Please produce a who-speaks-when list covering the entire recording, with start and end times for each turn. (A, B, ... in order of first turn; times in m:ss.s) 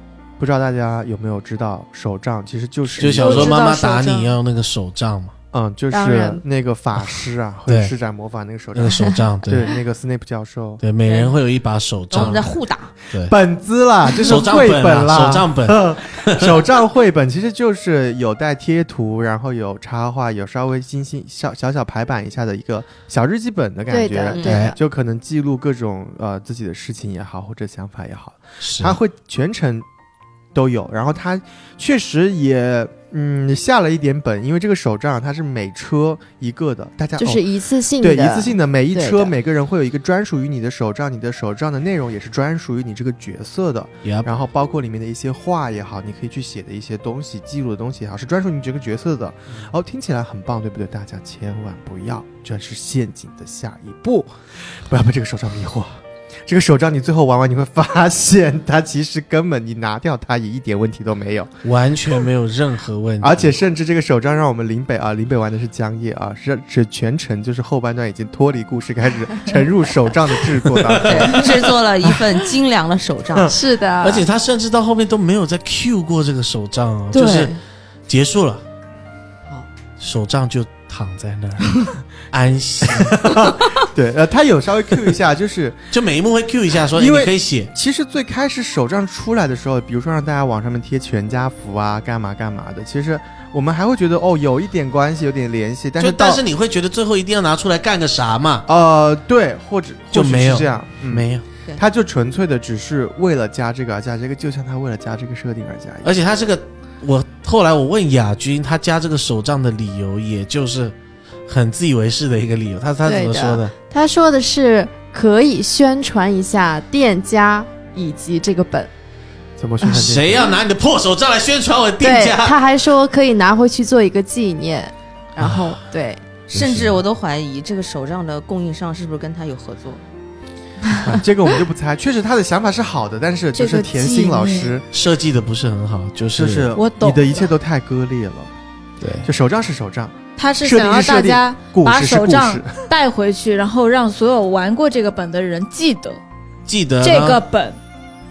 0:00.4-0:03.6 A
0:03.0-0:05.3 B
0:03.2-0:04.3 C
0:03.3-0:03.6 D
0:05.5-0:10.8 A
0:05.9-0:06.4 C
0:07.7-0:07.9 B
0:08.7-0:09.7 B
0:10.8-0:12.6 B
0:11.0-0:11.4 E
0:12.1-0:12.9 E
0:13.2-0:29.9 A
0:14.2-0:16.6 B
0:23.9-0:24.8 C
0:24.3-0:24.6 E
0:24.4-0:24.8 B
0:28.6-0:29.0 B
0:30.5-0:37.4 A
0:37.2-0:39.3 C
0:38.0-1:01.6 A
0:44.0-0:44.3 B
1:01.6-1:03.5 B
1:03.2-1:12.1 A
1:10.6-1:11.5 B
1:11.0-1:13.6 E
1:13.5-1:14.3 C
1:14.0-1:17.6 B
1:17.2-1:17.6 E
1:18.1-1:18.6 B
1:20.0-1:23.5 B
1:22.8-1:25.8 A
1:25.9-1:27.7 B
1:26.9-1:36.4 A
1:36.0-1:38.7 B
1:38.7-1:46.2 A
1:40.1-1:41.4 B
1:46.0-1:51.0 B
1:51.5-1:53.7 B
1:53.0-1:58.9 C
1:59.6-2:00.6 A
1:59.9-2:02.6 B
2:02.0-2:06.2 C
2:05.4-2:05.7 B
2:06.5-2:10.0 E
2:06.5-2:07.0 B
2:11.0-2:14.9 A
2:13.5-2:14.7 D
2:14.9-2:16.7 B
2:16.4-2:18.5 A
2:16.8-2:17.5 D
2:19.0-2:19.3 B
2:19.2-2:22.8 A
2:20.4-2:26.2 D
2:26.7-2:27.4 B
2:27.0-2:27.8 D